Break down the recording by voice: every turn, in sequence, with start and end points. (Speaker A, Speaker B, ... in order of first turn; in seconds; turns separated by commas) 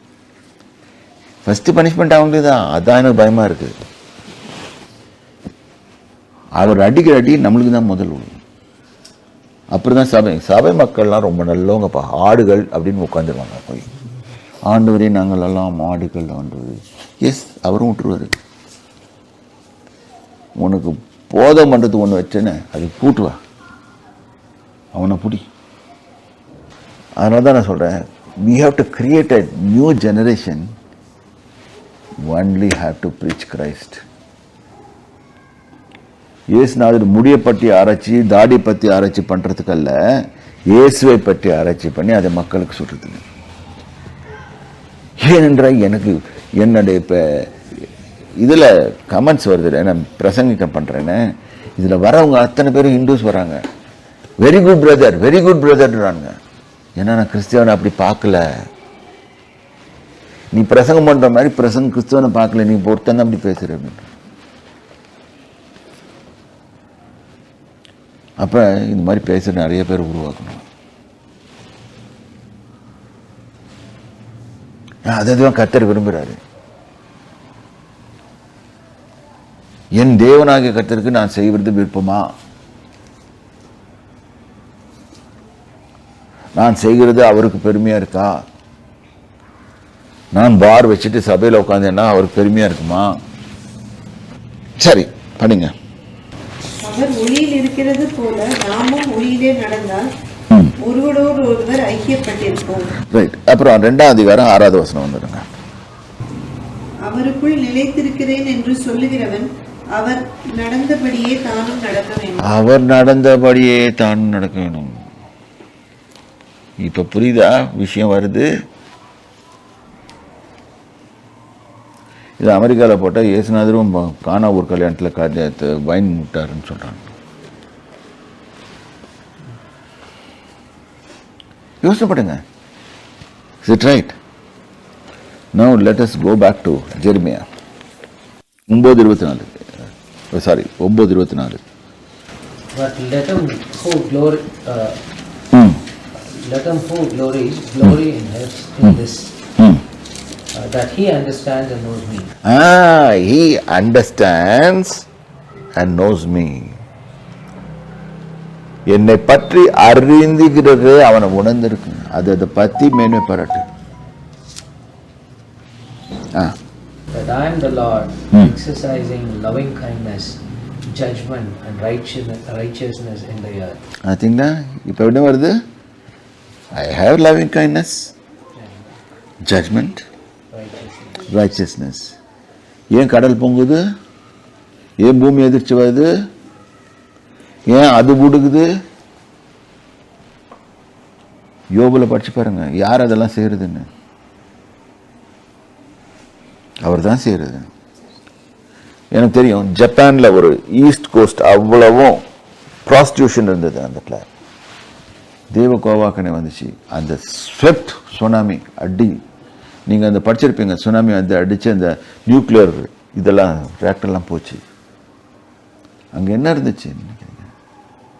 Speaker A: 1.4-3.7, Speaker A: 6.6-8.4, Speaker A: 9.7-13.9, Speaker A: 14.7-18.3, Speaker A: 20.6-23.4, Speaker A: 24.9-25.4, Speaker A: 27.2-30.7, Speaker A: 32.3-34.0, Speaker A: 36.5-40.0, Speaker A: 40.7-43.2, Speaker A: 45.2-47.5, Speaker A: 48.4-51.2, Speaker A: 51.8-53.6, Speaker A: 54.4-56.4, Speaker A: 57.0-58.5, Speaker A: 60.5-64.1, Speaker A: 68.4-70.6, Speaker A: 75.0-76.4, Speaker A: 80.0-82.3, Speaker A: 86.5-88.4, Speaker A: 90.3-93.1, Speaker A: 94.8-95.7, Speaker B: 96.8-100.0, Speaker B: 100.8-102.9, Speaker A: 103.1-105.5, Speaker B: 107.0-112.5, Speaker A: 112.4-115.0, Speaker A: 116.8-118.5, Speaker A: 122.4-127.1, Speaker A: 131.8-132.4, Speaker A: 133.6-134.2, Speaker A: 135.5-137.4, Speaker A: 138.7-139.6, Speaker A: 140.3-141.6, Speaker C: 142.7-145.0, Speaker A: 145.5-145.8, Speaker C: 146.1-149.3, Speaker A: 149.6-149.8, Speaker C: 150.5-152.3, Speaker A: 152.4-155.0, Speaker A: 155.8-156.8, Speaker A: 158.9-163.6, Speaker C: 167.1-173.8, Speaker A: 174.1-175.6, Speaker A: 176.7-178.1, Speaker C: 178.6-178.9, Speaker A: 179.4-180.0, Speaker C: 180.5-181.3, Speaker A: 181.3-182.1, Speaker A: 182.9-183.8, Speaker A: 185.0-186.1, Speaker A: 187.7-188.7, Speaker A: 191.7-193.9, Speaker A: 196.8-197.7, Speaker A: 199.1-202.2, Speaker A: 202.8-204.3, Speaker A: 205.5-209.2, Speaker A: 209.9-214.6, Speaker A: 216.1-217.5